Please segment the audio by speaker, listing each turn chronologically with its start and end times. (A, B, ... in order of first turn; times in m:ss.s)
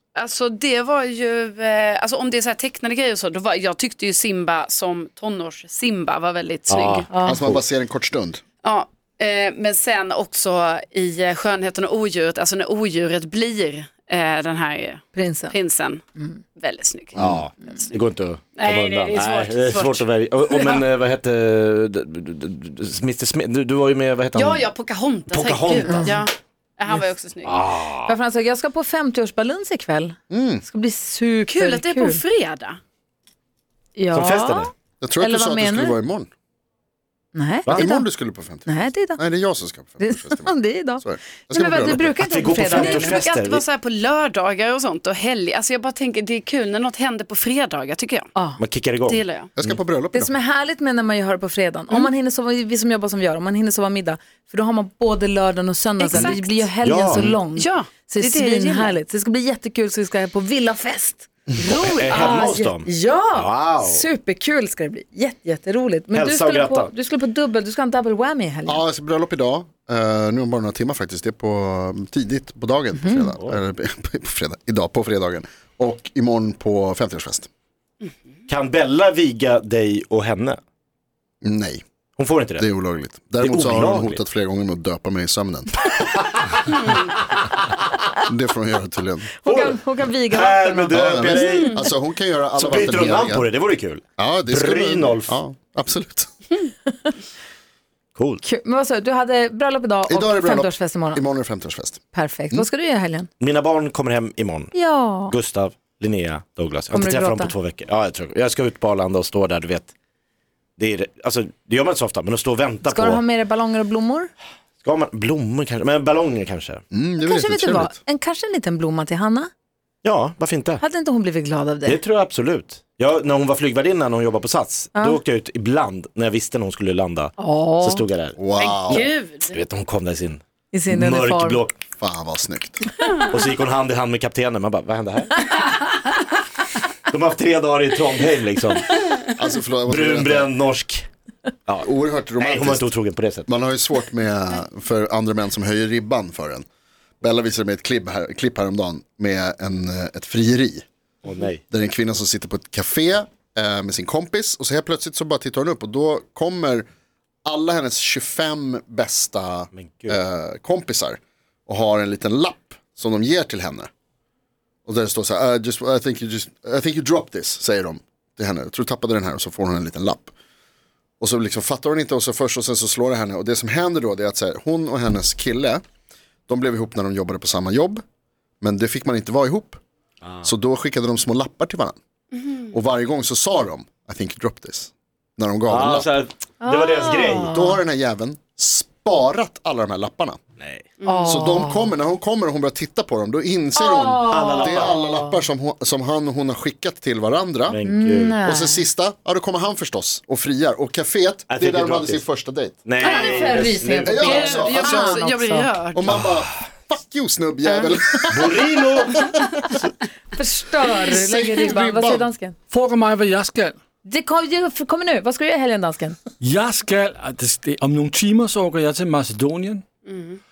0:00.2-0:07.1 A
0:06.7-0:07.6 B
0:07.1-0:07.4 C
0:07.2-0:08.4 D
0:08.6-0:16.0 A
0:15.1-0:15.6 C
0:16.5-0:18.0 A
0:17.1-0:17.4 D
0:17.2-0:24.7 B
0:18.6-0:20.8 A
0:24.3-0:27.6 A
0:25.3-0:26.1 B
0:25.9-0:26.2 C
0:27.4-0:28.1 B
0:28.0-0:32.2 C
0:30.3-0:30.6 D
0:31.5-0:32.8 A
0:34.0-0:36.0 C
0:34.1-0:34.7 B
0:35.0-0:36.3 D
0:37.3-0:38.1 C
0:37.7-0:42.2 D
0:38.6-0:39.2 C
0:40.0-0:43.2 C
0:42.2-0:43.6 B
0:42.8-0:48.3 A
0:48.3-0:48.6 C
0:48.6-0:49.8 B
0:49.0-0:49.5 A
0:49.6-0:50.3 D
0:50.1-1:08.8 C
0:56.0-0:56.6 A
0:56.1-0:57.4 B
0:57.5-0:59.0 A
1:01.6-1:04.1 B
1:01.9-1:02.3 A
1:06.1-1:06.9 B
1:08.6-1:17.5 D
1:12.9-1:13.3 C
1:18.5-1:20.6 B
1:21.4-1:21.8 D
1:22.2-1:22.7 B
1:22.6-1:25.9 D
1:23.4-1:24.2 B
1:26.7-1:27.0 B
1:28.3-1:29.3 D
1:29.4-1:31.0 C
1:29.4-1:29.8 B
1:30.3-1:31.8 B
1:30.9-1:33.5 D
1:31.5-1:31.8 A
1:32.6-1:35.4 B
1:34.2-1:36.3 D
1:38.2-1:38.4 B
1:38.4-1:41.2 C
1:40.1-1:42.0 D
1:42.1-1:43.3 C
1:43.4-1:49.9 B
1:44.7-1:45.4 C
1:46.9-1:47.5 C
1:50.8-1:53.2 B
1:52.8-1:54.3 C
1:54.8-1:56.8 B
1:56.9-1:57.9 D
1:57.2-1:59.5 C
2:00.0-2:00.8 B
2:00.8-2:02.0 C
2:01.8-2:11.7 B
2:04.9-2:05.2 C
2:07.4-2:08.0 C
2:08.4-2:09.1 D
2:08.6-2:09.6 A
2:10.7-2:11.6 C
2:12.0-2:12.8 D
2:13.3-2:15.8 B
2:17.1-2:19.0 B
2:19.3-2:20.5 D
2:19.9-2:21.1 B
2:21.7-2:23.5 B
2:21.8-2:22.9 D
2:23.4-2:26.6 D
2:27.2-2:30.8 D
2:31.2-2:31.6 B
2:31.7-2:36.8 D
2:37.4-2:43.9 D
2:39.7-2:40.2 B
2:44.8-2:50.3 D
2:51.2-2:55.8 D
2:56.5-2:58.0 D
2:58.6-2:59.8 D
3:00.4-3:02.0 D
3:02.7-3:06.1 D
3:05.7-3:07.6 B
3:06.6-3:07.8 C
3:07.4-3:10.4 D
3:10.6-3:10.9 B
3:11.0-3:11.4 A
3:11.0-3:11.9 C
3:11.2-3:17.8 D
3:13.8-3:15.0 C
3:14.3-3:15.1 B
3:17.7-3:18.4 B
3:17.8-3:18.8 C
3:18.4-3:22.8 D
3:21.5-3:22.2 B
3:22.8-3:24.3 B
3:23.0-3:25.7 C
3:24.0-3:25.3 D
3:24.2-3:26.2 A
3:25.9-3:28.6 D
3:27.6-3:28.0 C
3:28.3-3:29.2 B
3:30.3-3:32.6 C
3:31.0-3:32.3 D
3:32.7-3:33.8 E
3:34.0-3:36.2 C
3:36.4-3:39.8 E
3:40.1-3:40.4 A